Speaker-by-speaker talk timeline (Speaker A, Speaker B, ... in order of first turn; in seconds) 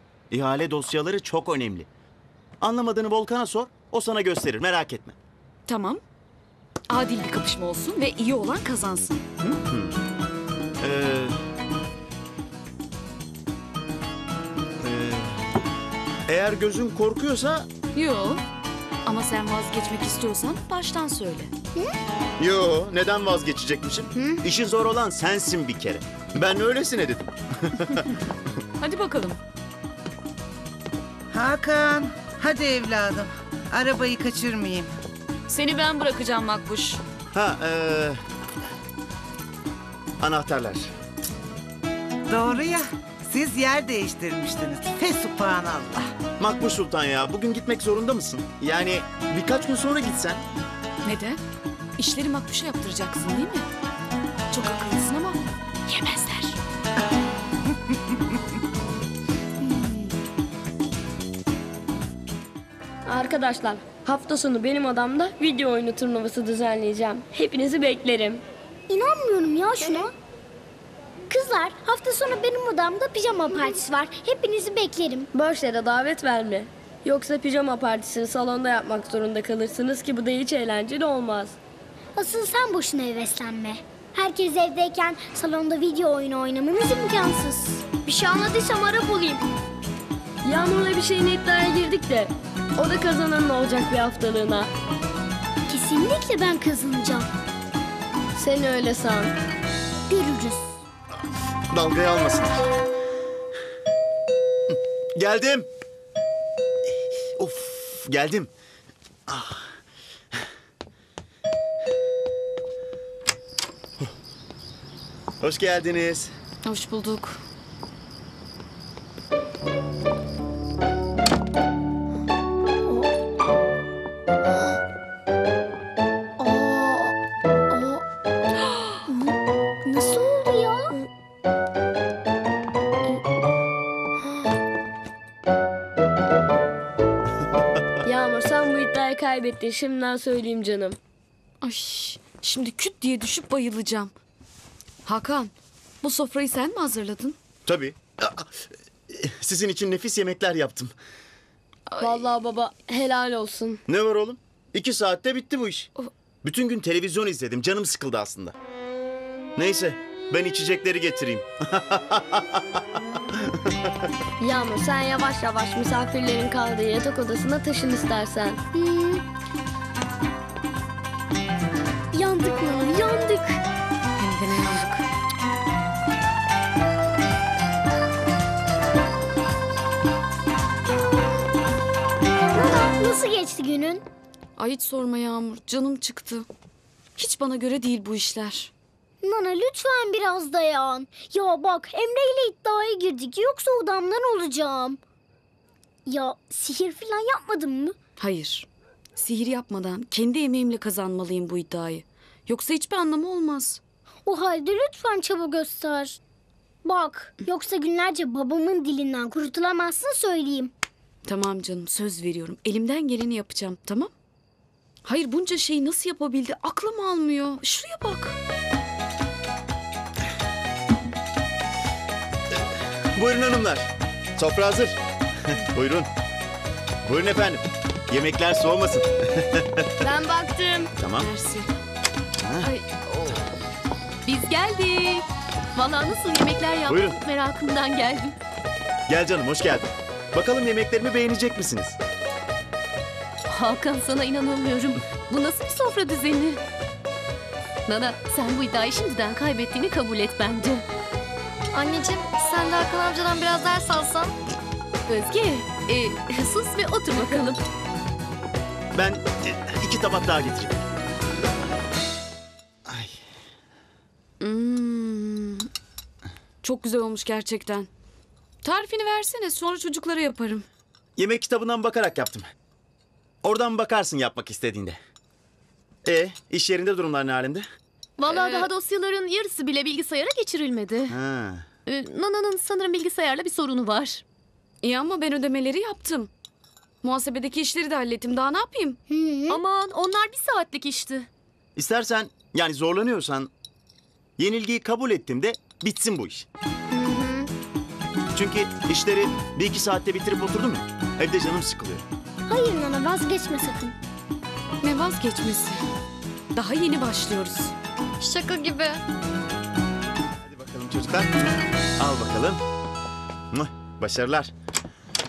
Speaker A: 0.3-1.9, 2.6-5.2, 9.4-10.0, 10.8-11.4, 14.8-15.5, 16.3-17.7, 22.4-28.1, 37.3-38.2, 40.2-40.9, 46.4-50.4, 101.7-102.7, 105.2-105.7, 107.4-108.5, 109.3-109.7, 115.4-116.3, 147.7-150.9, 153.9-155.9, 156.4-158.5, 159.6-162.8, 163.3-163.7, 223.1-226.1, 227.0-229.8, 231.0-231.3, 232.4-232.7, 236.9-237.2, 239.1-242.0, 258.9-260.8, 262.9-263.1, 271.2-272.5, 273.4-275.0, 276.0-277.7, 281.1-281.6, 291.8-293.5, 294.4-296.5, 298.3-302.1, 310.4-312.6, 313.5-314.5
Speaker B: 5.7-6.0, 6.9-9.2, 17.9-18.4, 19.1-21.5, 28.8-29.4, 35.5-37.0, 51.0-51.4, 52.0-53.7, 54.5-56.6, 116.6-117.4, 141.6-144.1, 145.0-147.4, 151.9-152.3, 174.2-175.1, 184.6-186.5, 187.2-188.7, 198.2-203.8, 211.2-214.1, 215.0-218.3, 231.2-231.7, 232.7-233.3, 264.4-265.7, 266.6-267.9, 268.6-270.7, 278.3-278.7, 284.8-286.3, 287.0-289.0, 304.8-305.8, 306.5-307.7
Speaker C: 31.3-34.9, 42.3-46.1
Speaker D: 63.0-68.4, 75.3-81.6, 90.4-94.7, 98.3-99.3, 126.4-127.2, 127.7-128.0, 138.0-141.0, 152.0-153.8, 164.4-168.6, 230.0-230.9
Speaker E: 68.9-70.1, 71.3-75.3, 82.2-89.4, 95.7-97.3, 100.1-100.8, 129.8-130.9, 168.7-169.2, 172.1-173.6, 182.5-184.0, 189.2-195.0, 196.1-197.9, 204.2-206.2, 206.8-210.7, 289.1-289.6, 296.9-297.5, 302.5-303.9
Speaker F: 234.2-238.4, 243.5-246.6, 247.9-250.8, 255.1-257.6, 278.2-281.2, 281.9-284.2, 289.5-291.3
Speaker G: 251.7-254.3, 308.2-309.0